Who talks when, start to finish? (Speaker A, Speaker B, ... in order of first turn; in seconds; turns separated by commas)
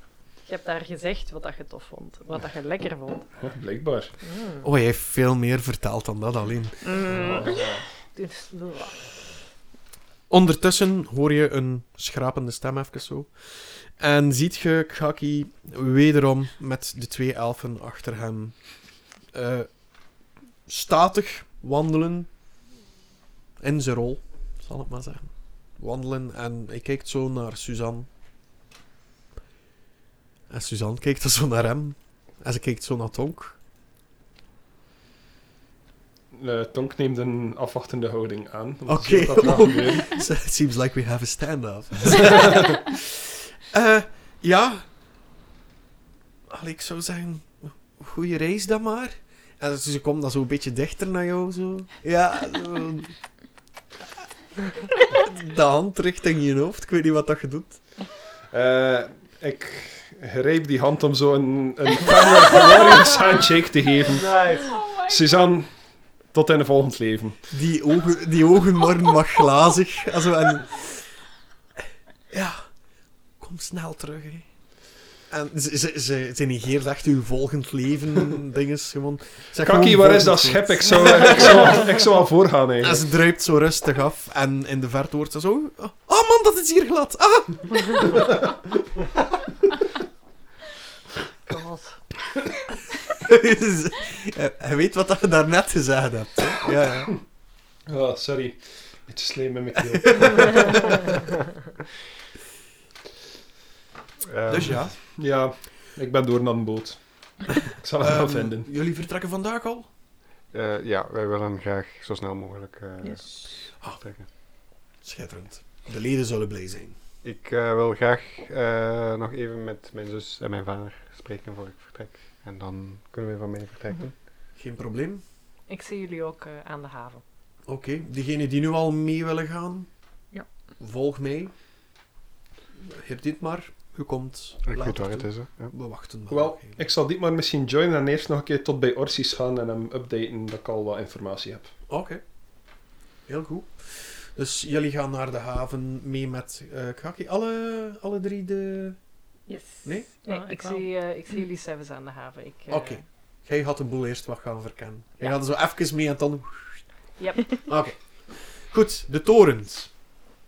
Speaker A: 0.5-3.3, Speaker B: 3.4-4.1, Speaker A: 4.2-4.6, Speaker C: 4.6-7.0, Speaker D: 6.8-7.6, Speaker B: 7.2-7.8, Speaker A: 7.3-7.5, Speaker A: 8.1-9.0, Speaker C: 10.3-18.6, Speaker C: 19.3-19.7, Speaker C: 20.7-22.3, Speaker C: 23.6-28.1, Speaker C: 30.5-33.6, Speaker B: 36.3-40.1, Speaker C: 38.9-44.8, Speaker C: 46.5-53.2, Speaker C: 55.0-57.8, Speaker B: 58.5-65.7, Speaker E: 64.2-64.7, Speaker B: 66.3-67.4, Speaker C: 67.5-71.1, Speaker C: 72.3-72.6, Speaker C: 73.4-74.5, Speaker C: 75.3-81.8, Speaker B: 79.6-83.0, Speaker C: 82.8-88.5, Speaker A: 91.5-92.0, Speaker C: 93.2-97.1, Speaker B: 97.9-101.0, Speaker C: 99.9-100.9, Speaker E: 104.2-104.8, Speaker C: 104.5-104.9, Speaker B: 105.2-108.7, Speaker C: 108.0-109.9, Speaker E: 110.5-114.2, Speaker C: 113.7-114.0, Speaker C: 115.0-117.0, Speaker E: 117.2-124.1, Speaker C: 124.5-125.2, Speaker A: 125.7-127.2, Speaker C: 127.7-129.9, Speaker C: 130.8-131.5, Speaker C: 132.8-136.8, Speaker E: 134.6-135.7, Speaker B: 136.3-141.7, Speaker C: 141.9-142.2, Speaker C: 143.3-149.0, Speaker D: 149.5-150.8, Speaker C: 149.8-150.1, Speaker A: 150.2-153.0, Speaker C: 152.7-156.8, Speaker A: 157.2-157.5, Speaker C: 157.6-159.9